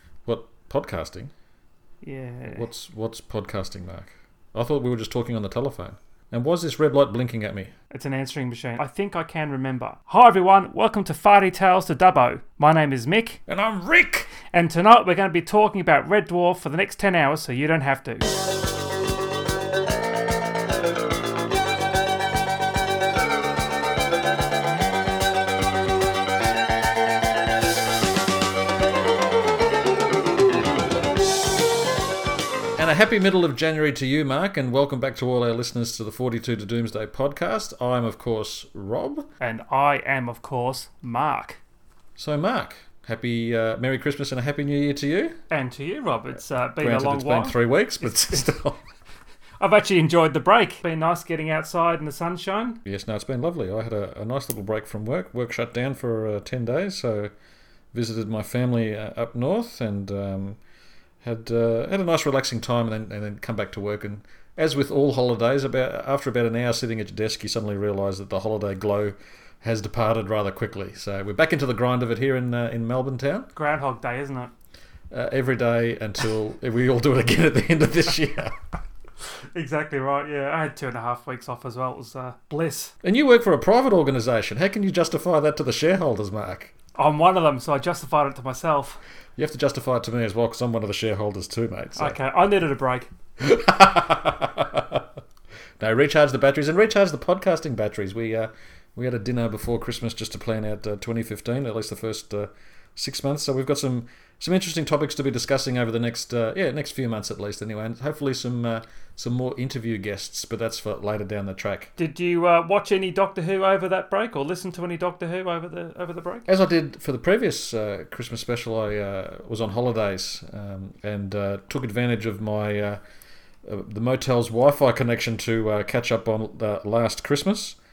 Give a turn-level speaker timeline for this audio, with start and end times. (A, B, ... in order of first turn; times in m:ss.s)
0:00.2-0:01.3 A
0:02.0-0:02.6 B
0:02.5-0:07.7 A
0:07.9-0:13.4 B
0:13.5-0:14.3 A
0:14.5-0:18.3 B
0:32.8-0:39.3 A
0:39.4-0:41.6 B
0:42.2-0:45.4 A
0:45.5-0:48.4 B
0:46.8-0:48.8 A
0:49.6-0:52.8 B
0:52.8-0:57.3 A
0:57.9-1:00.6 A
1:01.2-1:13.5 A
1:13.5-1:14.5 B
1:15.1-1:18.6 A
1:19.5-1:22.9 B
1:23.0-1:26.7 A
1:26.9-1:29.0 B
1:29.4-1:32.2 A
1:32.0-1:33.1 B
1:33.4-1:35.1 A
1:35.8-1:51.9 A
1:52.0-1:56.5 B
1:56.5-2:03.0 A
2:03.6-2:07.8 A